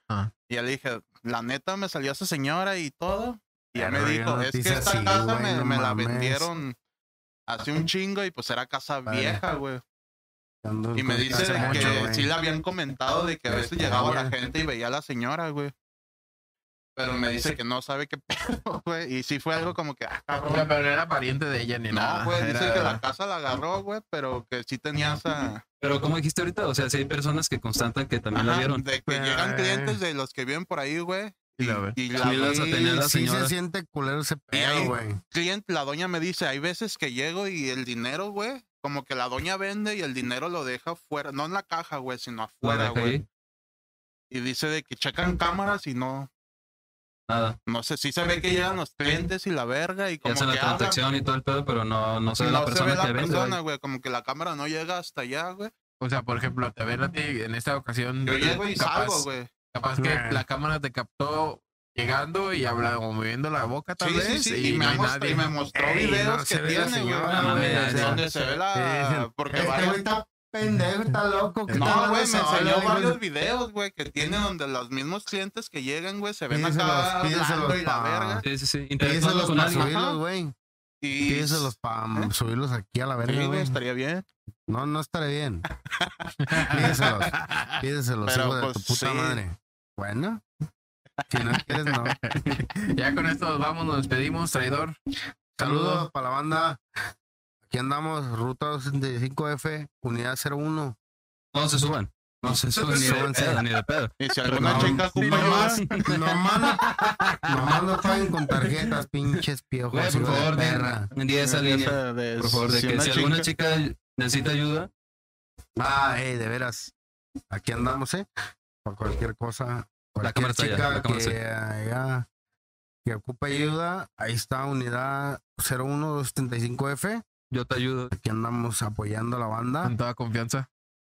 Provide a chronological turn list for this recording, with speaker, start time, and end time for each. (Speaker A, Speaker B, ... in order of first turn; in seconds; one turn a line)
Speaker A: 0.5-6.8
Speaker B: 3.7-6.5
Speaker A: 7.5-9.8
Speaker B: 9.1-9.4
Speaker B: 10.6-12.3
Speaker A: 10.9-15.7
Speaker C: 11.3-12.1
Speaker B: 13.5-14.3
Speaker A: 16.9-20.7
Speaker C: 20.4-23.0
Speaker A: 21.9-25.6
Speaker D: 25.8-28.9
Speaker A: 28.3-32.6
Speaker B: 29.1-30.0
Speaker C: 31.6-32.0
Speaker D: 32.1-33.5
Speaker B: 32.2-35.2
Speaker A: 34.5-43.2
Speaker D: 42.6-43.2
Speaker A: 44.3-46.3
Speaker D: 47.3-47.6
Speaker A: 47.7-51.0
Speaker D: 50.2-53.6
Speaker A: 52.3-55.7
Speaker C: 56.0-65.5
Speaker A: 58.2-59.5
Speaker B: 60.0-60.4
Speaker A: 64.0-70.0
Speaker B: 65.7-73.2
Speaker D: 67.3-68.2
Speaker C: 70.7-71.1
Speaker C: 71.7-72.0
Speaker A: 71.7-78.4
Speaker B: 76.5-78.5
Speaker D: 78.4-79.9
Speaker B: 79.0-80.5
Speaker A: 79.7-80.2
Speaker A: 81.0-82.3
Speaker B: 81.3-83.8
Speaker A: 83.2-84.2
Speaker B: 84.7-85.6
Speaker A: 86.0-87.1
Speaker C: 86.4-87.8
Speaker B: 86.7-90.4
Speaker A: 88.2-89.4
Speaker B: 91.3-92.2
Speaker C: 92.1-95.0
Speaker B: 95.5-96.8
Speaker C: 95.6-96.1
Speaker B: 97.7-101.0
Speaker D: 101.5-106.1
Speaker B: 102.8-103.6
Speaker A: 104.2-106.0
Speaker B: 104.5-106.8
Speaker C: 105.1-105.7
Speaker C: 106.7-107.3
Speaker D: 106.8-107.8
Speaker B: 107.5-111.1
Speaker D: 109.9-114.9
Speaker A: 111.4-113.5
Speaker B: 115.8-116.9
Speaker B: 117.5-118.3
Speaker B: 118.8-122.3
Speaker D: 120.2-121.4
Speaker B: 123.0-127.2
Speaker D: 127.5-128.1
Speaker B: 128.1-129.9
Speaker C: 129.8-130.7